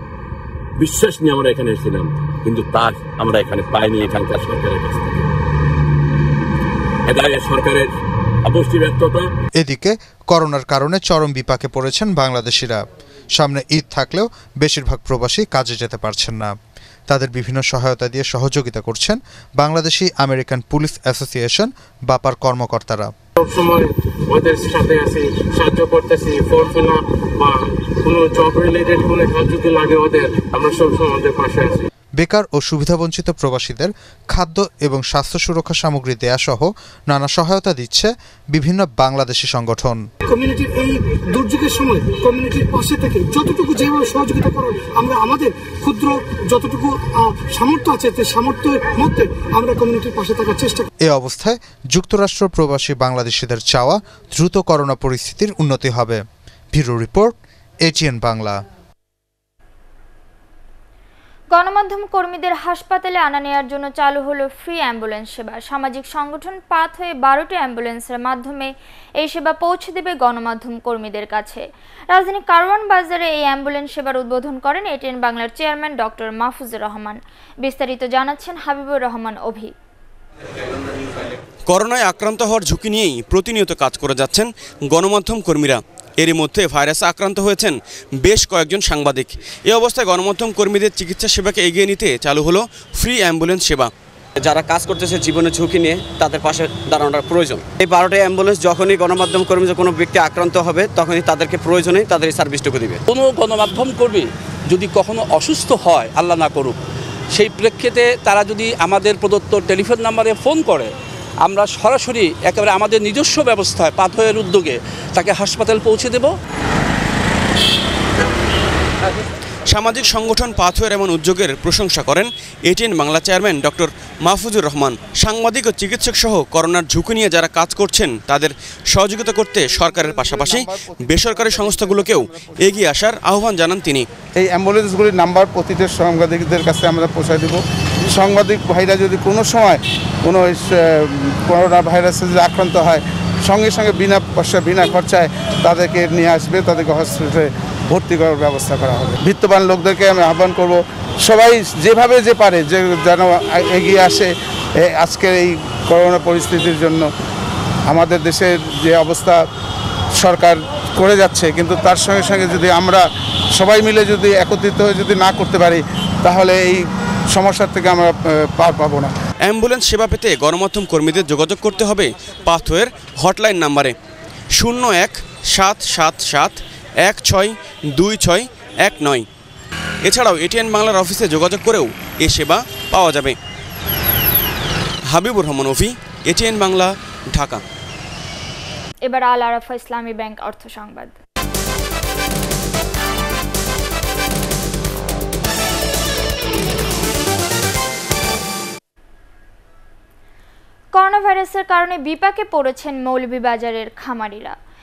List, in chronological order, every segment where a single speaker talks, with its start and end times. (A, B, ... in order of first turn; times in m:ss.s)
0:00.8-0:05.2 A
0:07.0-0:07.9 A
0:08.4-0:09.3 A
0:09.6-0:12.8 B
0:13.4-0:16.5 B
0:17.1-0:23.1 B
0:23.4-0:31.8 C
0:32.2-0:40.0 B
0:40.2-0:50.9 D
0:51.0-0:58.6 B
1:01.5-1:19.7 E
1:21.7-1:33.9 F
1:34.4-1:43.0 G
1:43.1-1:46.8 H
1:47.3-1:50.9 H
1:51.4-1:56.3 H
1:59.7-2:14.1 F
2:14.3-2:34.3 I
2:34.8-2:37.1 I
2:37.9-2:39.4 I
2:40.2-2:43.0 I
2:43.6-2:49.1 I
2:49.4-2:53.9 F
2:54.5-2:59.2 F
3:00.0-3:03.4 F
3:05.1-3:07.6 F
3:09.0-3:11.1 E
3:21.0-3:24.5 E